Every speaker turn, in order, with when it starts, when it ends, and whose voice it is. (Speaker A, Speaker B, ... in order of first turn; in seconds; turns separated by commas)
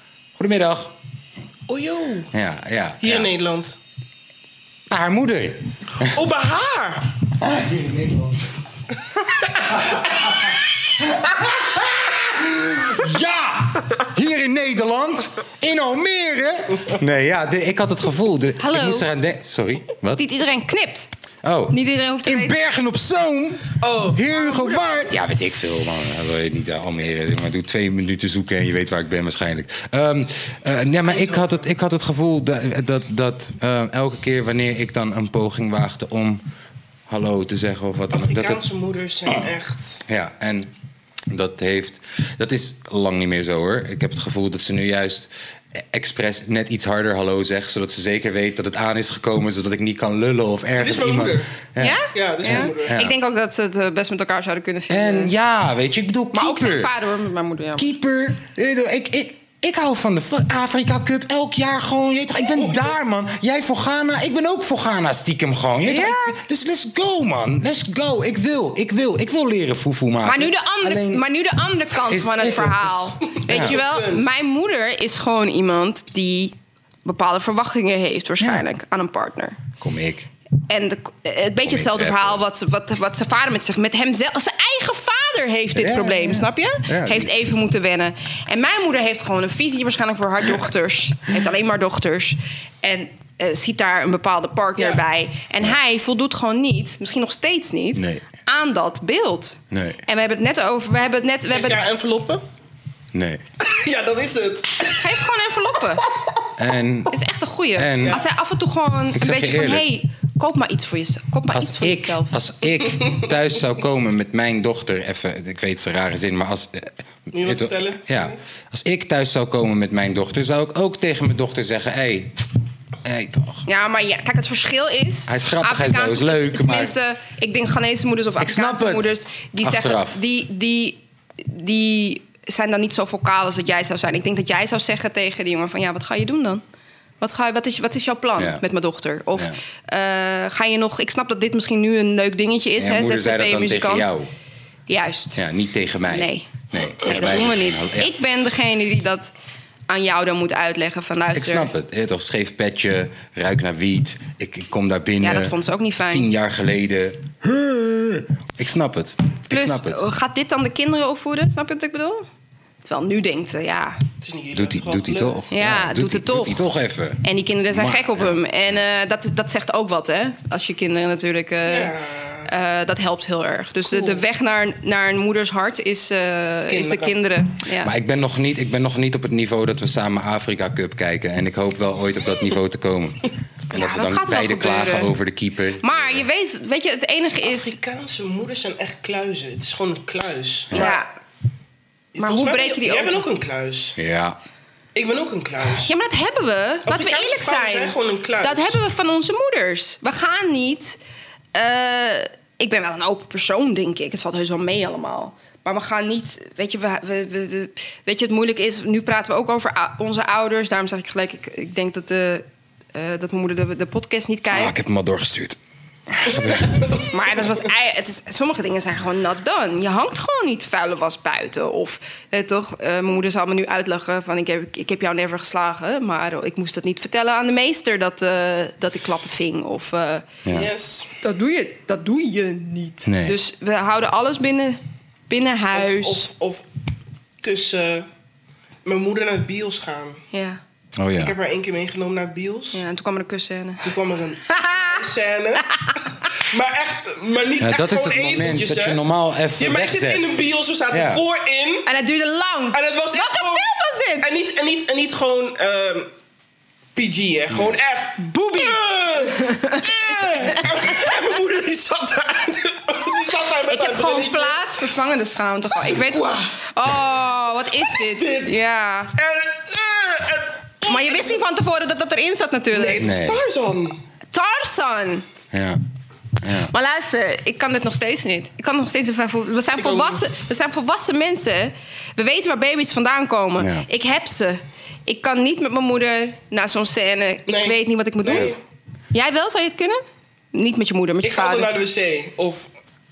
Speaker A: 0.4-1.0, Speaker B: 1.7-2.3, Speaker A: 2.3-3.3, Speaker B: 3.0-3.8, Speaker A: 4.9-6.2, Speaker B: 6.0-7.0, Speaker A: 7.3-8.5, Speaker B: 9.3-9.9, Speaker A: 11.0-20.3, Speaker C: 18.6-19.1, Speaker C: 20.2-21.1, Speaker A: 21.4-36.4, Speaker C: 21.7-22.6, Speaker B: 23.8-25.1, Speaker B: 31.1-31.7, Speaker A: 37.1-38.6, Speaker B: 38.1-40.1, Speaker A: 40.1-40.7, Speaker A: 41.3-53.1, Speaker B: 50.8-51.6, Speaker C: 51.8-55.3, Speaker B: 52.1-53.0, Speaker A: 54.9-56.9, Speaker C: 56.3-57.9, Speaker A: 57.8-71.2, Speaker C: 65.9-66.4, Speaker C: 70.2-76.5, Speaker A: 72.0-73.8, Speaker B: 73.2-74.3, Speaker C: 77.0-79.6, Speaker A: 78.4-78.7, Speaker A: 79.8-80.3, Speaker C: 80.7-101.8, Speaker A: 81.6-82.4, Speaker A: 85.8-87.4, Speaker A: 98.0-98.2, Speaker A: 99.7-100.0, Speaker B: 101.5-102.4, Speaker A: 103.1-103.5, Speaker B: 103.6-105.1, Speaker C: 104.9-106.1, Speaker A: 106.6-107.2, Speaker C: 107.1-112.3, Speaker A: 107.8-108.2, Speaker A: 109.1-109.9, Speaker A: 111.5-122.5, Speaker B: 117.3-118.4, Speaker A: 123.0-123.7, Speaker C: 123.7-136.6, Speaker A: 125.3-127.0, Speaker A: 128.4-130.2, Speaker C: 137.2-144.1, Speaker A: 138.4-138.6, Speaker A: 142.8-144.3, Speaker C: 144.9-145.4, Speaker A: 145.4-148.2, Speaker C: 146.1-149.3, Speaker C: 149.9-151.7, Speaker A: 151.3-155.6, Speaker C: 155.2-156.3, Speaker A: 156.1-160.0, Speaker C: 159.5-162.3, Speaker C: 162.8-164.0, Speaker B: 164.2-165.4, Speaker A: 164.5-168.4, Speaker C: 165.5-166.6, Speaker C: 167.2-171.9, Speaker B: 171.7-172.5, Speaker C: 172.5-177.9, Speaker B: 173.9-174.2, Speaker B: 176.7-177.2, Speaker A: 177.8-186.3, Speaker C: 183.7-185.1, Speaker C: 185.8-187.8, Speaker B: 187.4-191.0, Speaker C: 190.7-191.1, Speaker B: 192.1-194.0, Speaker C: 192.2-193.2, Speaker A: 194.0-194.4, Speaker B: 194.9-195.9, Speaker C: 195.8-201.0, Speaker B: 196.9-198.8, Speaker C: 201.5-214.7, Speaker A: 214.5-217.0, Speaker C: 217.0-230.3, Speaker B: 230.5-231.1, Speaker C: 231.2-236.3, Speaker A: 233.1-233.4, Speaker B: 235.7-236.6, Speaker B: 237.4-238.1, Speaker B: 238.8-240.2, Speaker C: 240.3-240.6, Speaker A: 241.0-241.3, Speaker B: 241.2-242.8, Speaker C: 242.7-243.9, Speaker B: 243.8-249.0, Speaker C: 244.5-245.0, Speaker C: 245.8-246.0, Speaker A: 247.6-250.3, Speaker B: 249.6-251.9, Speaker A: 250.9-251.2, Speaker C: 251.9-254.3, Speaker B: 252.7-256.1, Speaker B: 257.0-264.7, Speaker C: 258.2-261.0, Speaker C: 263.7-269.1, Speaker B: 265.6-267.1, Speaker B: 267.7-268.6, Speaker B: 269.1-271.4, Speaker C: 270.8-273.0, Speaker B: 272.7-274.0, Speaker A: 273.0-273.4, Speaker C: 274.3-275.3, Speaker A: 275.5-275.8, Speaker A: 276.4-276.7, Speaker C: 276.6-288.6, Speaker B: 279.8-280.2, Speaker A: 283.6-283.9, Speaker B: 287.5-288.6, Speaker C: 289.1-291.7, Speaker B: 291.2-292.7